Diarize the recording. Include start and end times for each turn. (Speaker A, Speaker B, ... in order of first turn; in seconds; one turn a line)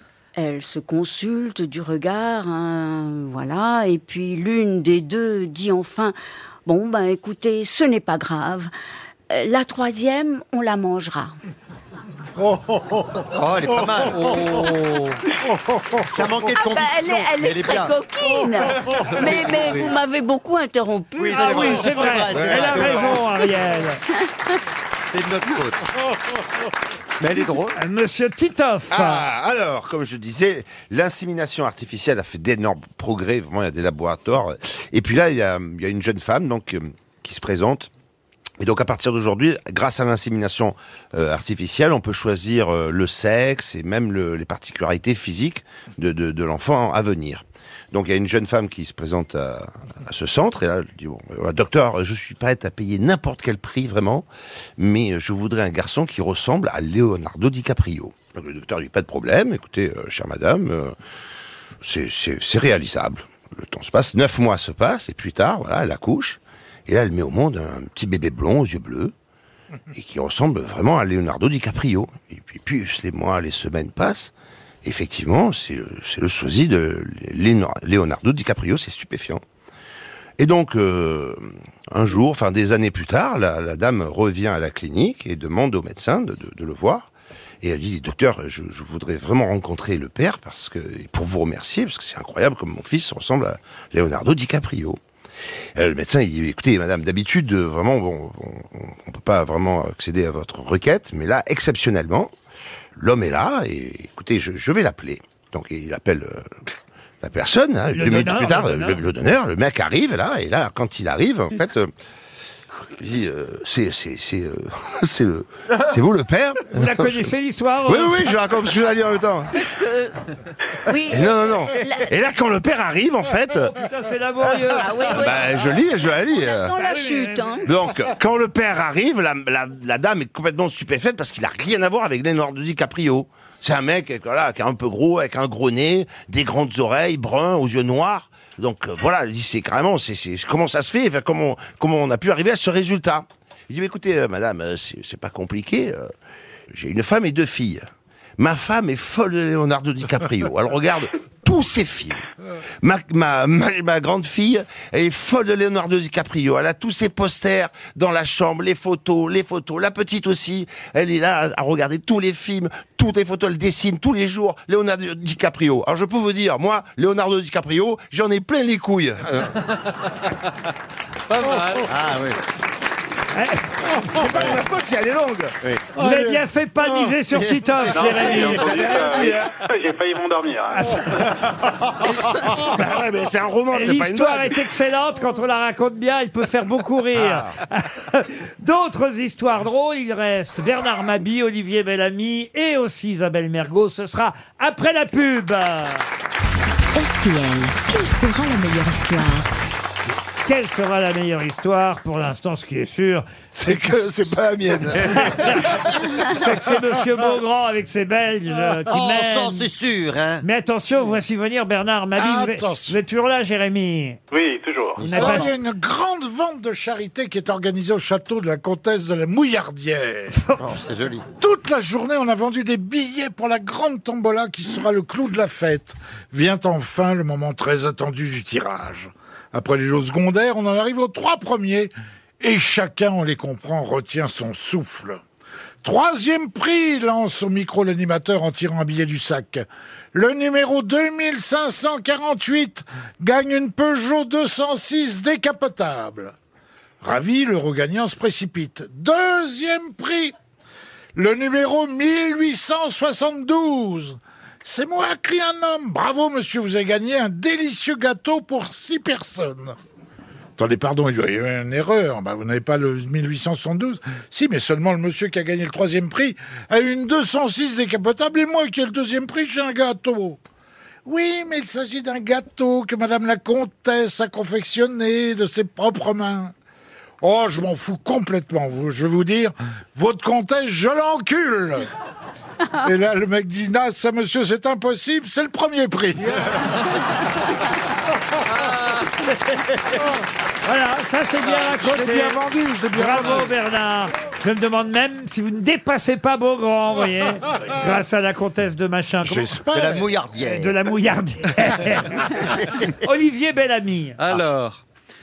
Speaker A: 0.3-8.7
Speaker A: 9.3-11.3
Speaker B: 13.3-14.6
Speaker C: 14.1-15.2
Speaker B: 16.1-17.9
Speaker A: 16.5-22.1
Speaker C: 19.2-19.9
Speaker B: 21.2-23.2
Speaker D: 21.3-24.0
Speaker E: 22.4-22.9
Speaker A: 24.2-24.6
Speaker B: 25.1-25.8
Speaker B: 27.2-27.8
Speaker D: 27.7-29.3
Speaker E: 28.9-37.9
Speaker E: 38.6-54.2
Speaker E: 54.8-60.9
Speaker E: 61.8-69.1
Speaker E: 69.9-74.3
Speaker E: 74.8-79.4
Speaker E: 80.4-87.1
Speaker E: 87.6-95.0
Speaker E: 95.8-102.3
Speaker E: 103.0-106.5
Speaker E: 107.2-111.9
Speaker D: 107.9-109.0
Speaker E: 113.0-117.2
Speaker D: 116.7-118.4
Speaker E: 117.8-119.5
Speaker A: 119.5-120.2
Speaker A: 120.8-122.1
Speaker E: 121.1-123.7
Speaker D: 123.7-125.0
Speaker A: 124.7-125.8
Speaker E: 125.1-126.7
Speaker A: 126.3-127.7
Speaker D: 126.8-127.7
Speaker E: 127.6-146.1
Speaker E: 146.7-147.8
Speaker E: 148.4-152.2
Speaker E: 152.8-169.5
Speaker C: 171.3-171.9
Speaker B: 171.8-172.4
Speaker D: 173.3-174.2
Speaker E: 174.1-175.6
Speaker F: 176.0-176.4
Speaker D: 176.0-178.7
Speaker G: 177.9-181.0
Speaker E: 178.3-179.5
Speaker D: 180.7-181.0
Speaker E: 182.4-184.6
Speaker D: 183.7-196.1
Speaker H: 196.9-199.5
Speaker D: 200.4-203.3
Speaker E: 203.6-206.1
Speaker D: 205.0-205.7
Speaker D: 206.2-209.7
Speaker B: 208.9-210.4
Speaker D: 210.4-214.2
Speaker F: 212.1-213.0
Speaker G: 214.3-215.1
Speaker D: 215.0-215.5
Speaker B: 215.0-215.4
Speaker F: 215.1-220.4
Speaker D: 220.3-220.6
Speaker B: 220.6-221.2
Speaker F: 221.4-235.2
Speaker F: 235.8-246.3
Speaker F: 247.0-250.3
Speaker F: 251.1-259.8
Speaker F: 260.6-270.4
Speaker F: 271.0-276.5
Speaker F: 277.2-281.9
Speaker F: 282.8-286.6
Speaker D: 290.6-292.4
Speaker F: 291.8-293.4
Speaker D: 292.9-299.6
Speaker F: 299.2-300.1
Speaker B: 299.7-300.8
Speaker D: 300.4-304.2
Speaker C: 304.2-304.8